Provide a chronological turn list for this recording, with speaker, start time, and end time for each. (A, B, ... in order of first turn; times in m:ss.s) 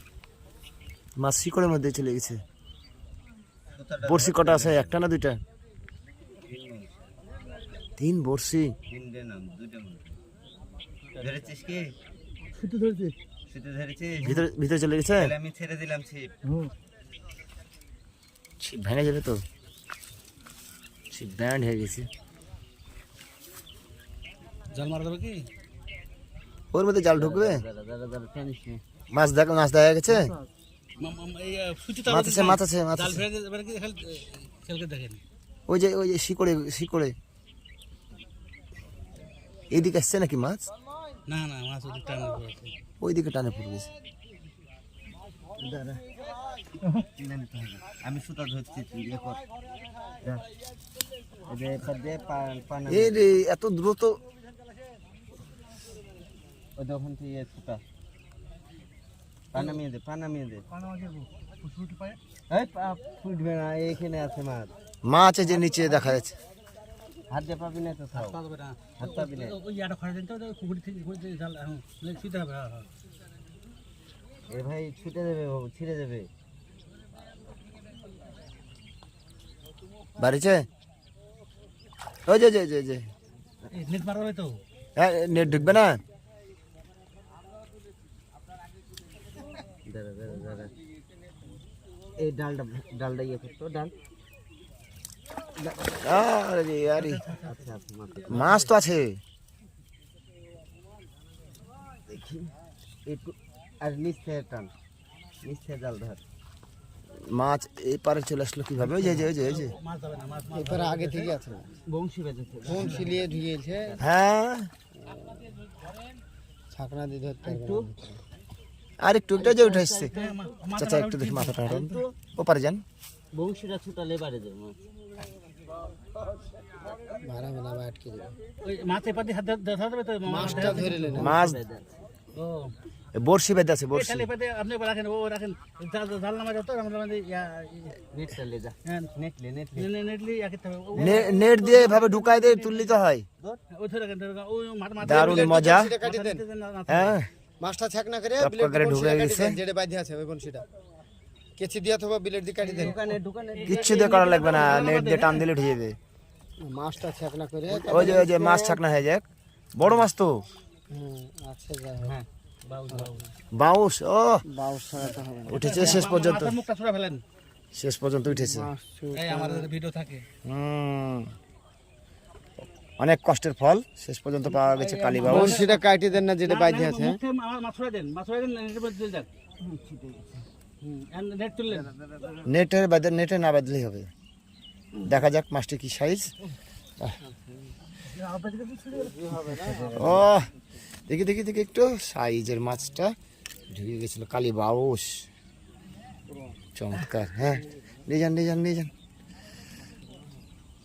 0:01.2-0:02.4 A
0:03.8-0:05.0 B
0:04.0-0:05.4 A
0:06.4-0:07.1 B
0:08.0-0:08.8 A
0:08.9-0:10.2 B
0:11.2-0:11.9 B
0:12.5-0:13.1 C
0:13.5-0:14.4 B
0:14.2-0:15.3 A
0:15.1-0:16.3 B
0:18.6-0:19.4 A
0:21.1-0:22.1 A
0:24.7-0:25.5 C
0:26.7-0:27.6 A
0:27.0-0:28.8 B
0:29.1-0:30.3 A
0:30.1-0:30.3 B
0:31.0-0:35.2 C
0:32.1-0:33.2 A
0:35.7-0:37.1 A
0:39.7-0:40.7 A
0:41.3-0:42.7 C
0:43.0-0:43.9 A
0:45.6-0:46.0 B
0:47.2-0:49.4 B
0:51.5-0:53.2 B
0:52.9-0:54.2 A
0:56.8-0:57.8 B
0:59.5-1:00.6 B
1:00.7-1:02.2 C
1:02.5-1:04.7 B
1:05.0-1:06.3 A
1:05.5-1:06.0 C
1:07.3-1:08.4 B
1:08.1-1:12.9 C
1:09.0-1:09.6 B
1:14.5-1:16.3 B
1:20.2-1:20.6 A
1:22.2-1:23.1 A
1:23.7-1:24.6 C
1:25.0-1:26.0 A
1:25.5-1:25.8 B
1:29.9-1:30.7 B
1:32.2-1:33.9 B
1:35.6-1:35.9 B
1:36.0-1:37.2 A
1:36.9-1:37.6 C
1:37.4-1:38.6 B
1:38.3-1:39.2 A
1:42.1-1:42.5 B
1:43.0-1:44.7 B
1:45.4-1:46.2 B
1:47.1-1:49.8 A
1:49.1-1:51.3 C
1:50.5-1:51.7 D
1:51.9-1:54.1 B
1:52.6-1:54.0 D
1:54.0-1:54.7 A
1:55.0-1:55.6 D
1:56.7-1:58.2 D
1:57.4-1:57.9 B
1:59.0-2:00.1 A
1:59.4-2:00.4 B
2:00.1-2:01.6 C
2:00.8-2:02.8 A
2:01.6-2:02.1 B
2:03.3-2:04.8 B
2:07.2-2:08.4 D
2:08.6-2:11.3 C
2:10.2-2:11.3 D
2:10.4-2:11.9 B
2:11.1-2:11.6 A
2:12.3-2:12.7 C
2:13.1-2:14.3 A
2:13.9-2:18.0 C
2:18.1-2:19.9 B
2:18.8-2:19.1 C
2:19.8-2:23.0 C
2:20.9-2:23.2 A
2:23.7-2:27.2 C
2:25.0-2:25.9 A
2:25.0-2:26.4 D
2:26.9-2:27.3 A
2:27.6-2:30.6 D
2:28.4-2:29.6 A
2:31.6-2:33.0 D
2:32.6-2:33.0 C
2:32.6-2:34.0 B
2:33.5-2:35.4 C
2:33.7-2:36.0 A
2:36.6-2:38.7 D
2:37.7-2:38.6 B
2:37.9-2:40.4 A
2:40.9-2:42.2 D
2:42.6-2:43.3 C
2:43.5-2:44.4 A
2:44.5-2:46.1 D
2:45.5-2:46.6 A
2:45.5-2:47.2 C
2:47.7-2:48.7 A
2:48.3-2:49.7 D
2:49.1-2:50.2 C
2:50.4-2:51.3 A
2:53.0-2:55.6 A
2:54.5-2:57.2 D
2:55.2-2:55.8 C
2:56.4-2:59.3 C
2:59.6-3:00.4 B
3:00.8-3:01.9 C
3:01.7-3:02.5 B
3:02.4-3:04.1 A
3:05.0-3:06.3 A
3:07.2-3:07.7 D
3:08.0-3:09.4 C
3:09.0-3:10.1 D
3:09.3-3:10.3 B
3:10.0-3:10.5 A
3:11.1-3:13.1 A
3:13.7-3:15.2 A
3:16.7-3:18.9 A